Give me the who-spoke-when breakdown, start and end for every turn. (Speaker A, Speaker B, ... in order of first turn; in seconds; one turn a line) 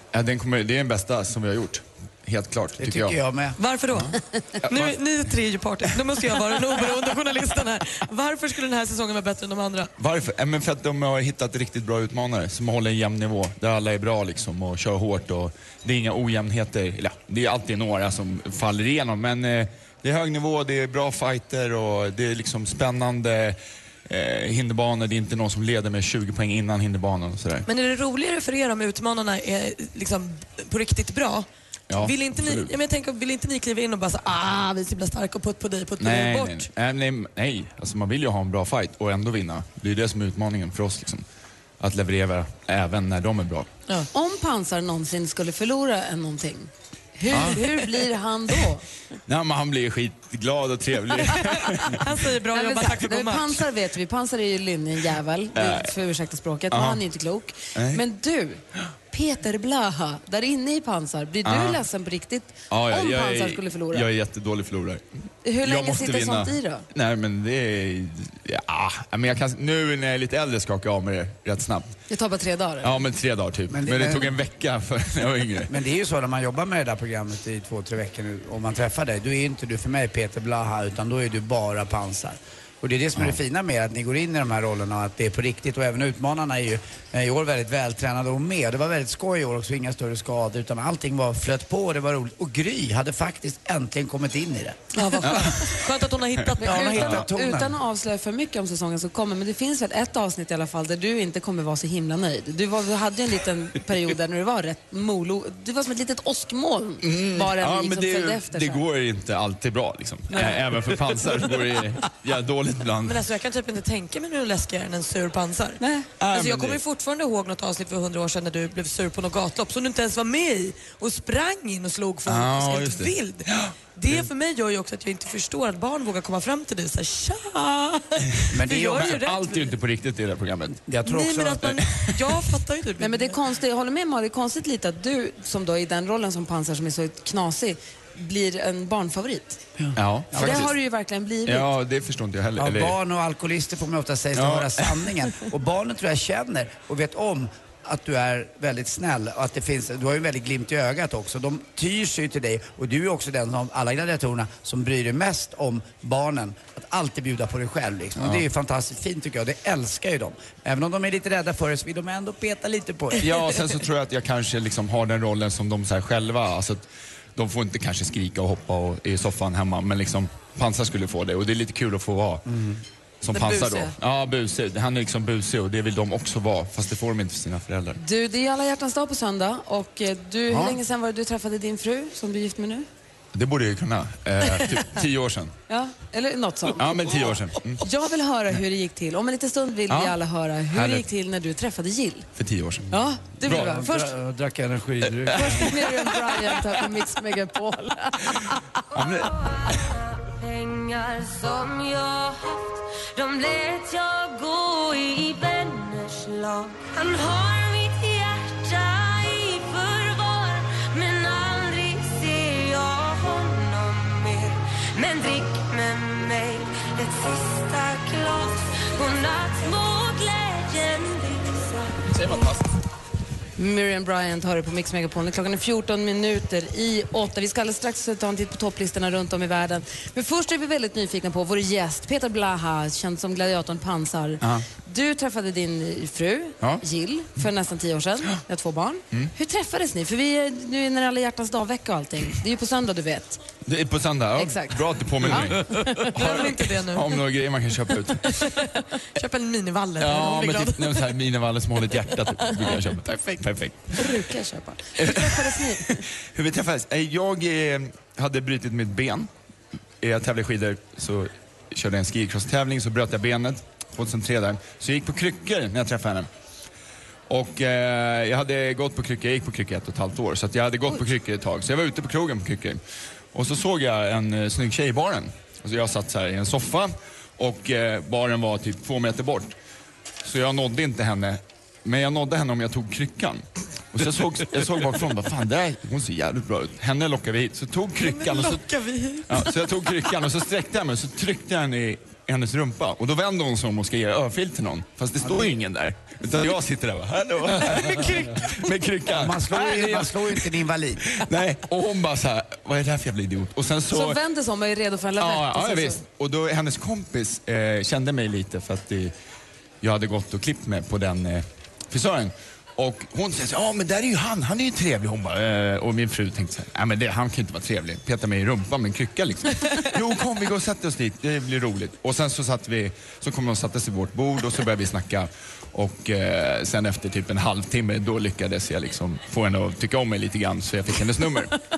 Speaker A: 0.1-3.2
Speaker B: 2.8-3.6
Speaker C: 3.6-9.9
Speaker A: 4.6-5.0
Speaker A: 10.0-27.7
Speaker C: 27.7-36.7
Speaker A: 31.9-32.7
Speaker A: 36.0-41.2
Speaker A: 41.8-43.7
Speaker D: 44.1-48.8
Speaker A: 47.3-47.6
Speaker A: 49.3-52.1
Speaker C: 51.4-53.6
Speaker D: 52.5-64.1
Speaker A: 55.5-55.9
Speaker A: 56.7-57.0
Speaker A: 57.7-58.0
Speaker A: 61.4-61.8
Speaker A: 62.7-65.0
Speaker D: 65.4-66.8
Speaker A: 65.6-71.9
Speaker D: 72.1-73.0
Speaker A: 72.8-75.7
Speaker B: 73.7-74.4
Speaker B: 75.7-94.8
Speaker C: 94.9-97.2
Speaker A: 95.2-95.6
Speaker B: 96.6-97.8
Speaker D: 96.6-108.8
Speaker A: 107.0-113.2
Speaker D: 110.3-110.6
Speaker C: 113.0-129.8
Speaker D: 115.8-116.1
Speaker A: 116.2-116.8
Speaker A: 122.2-124.2
Speaker B: 128.5-129.2
Speaker A: 128.9-130.8
Speaker B: 130.8-131.8
Speaker C: 131.0-133.4
Speaker D: 133.0-139.6
Speaker B: 139.8-140.7
Speaker A: 139.9-140.7
Speaker D: 140.3-141.7
Speaker A: 141.4-142.9
Speaker B: 142.6-163.4
Speaker A: 144.3-145.1
Speaker A: 158.2-158.4
Speaker A: 163.2-166.8
Speaker A: 167.3-172.4
Speaker B: 172.4-172.8
Speaker A: 173.2-178.0
Speaker D: 173.3-173.8
Speaker C: 173.4-173.8
Speaker D: 178.0-182.9
Speaker A: 180.5-180.8
Speaker A: 183.3-185.5
Speaker D: 185.7-187.3
Speaker A: 186.8-187.8
Speaker D: 187.8-192.3
Speaker A: 189.9-190.2
Speaker A: 190.7-191.0
Speaker A: 192.4-192.9
Speaker D: 192.9-194.1
Speaker A: 193.4-193.8
Speaker B: 193.4-195.8
Speaker A: 195.2-195.9
Speaker D: 195.3-198.6
Speaker A: 198.9-199.8
Speaker E: 199.3-222.5
Speaker A: 222.1-222.6
Speaker D: 223.6-243.4
Speaker A: 243.7-248.5
Speaker D: 244.4-246.1
Speaker C: 245.6-247.2
Speaker C: 248.2-251.1
Speaker A: 250.0-254.0
Speaker C: 252.5-253.4
Speaker D: 253.9-256.0
Speaker A: 255.0-259.3
Speaker A: 260.0-266.3
Speaker A: 267.3-272.8
Speaker A: 273.3-279.5
Speaker A: 280.2-288.6
Speaker C: 288.0-289.6
Speaker A: 289.3-300.4
Speaker B: 295.2-295.5
Speaker C: 297.6-298.7
Speaker B: 299.1-301.2
Speaker A: 301.1-304.2
Speaker D: 303.9-306.0
Speaker A: 305.2-309.1
Speaker A: 309.8-331.5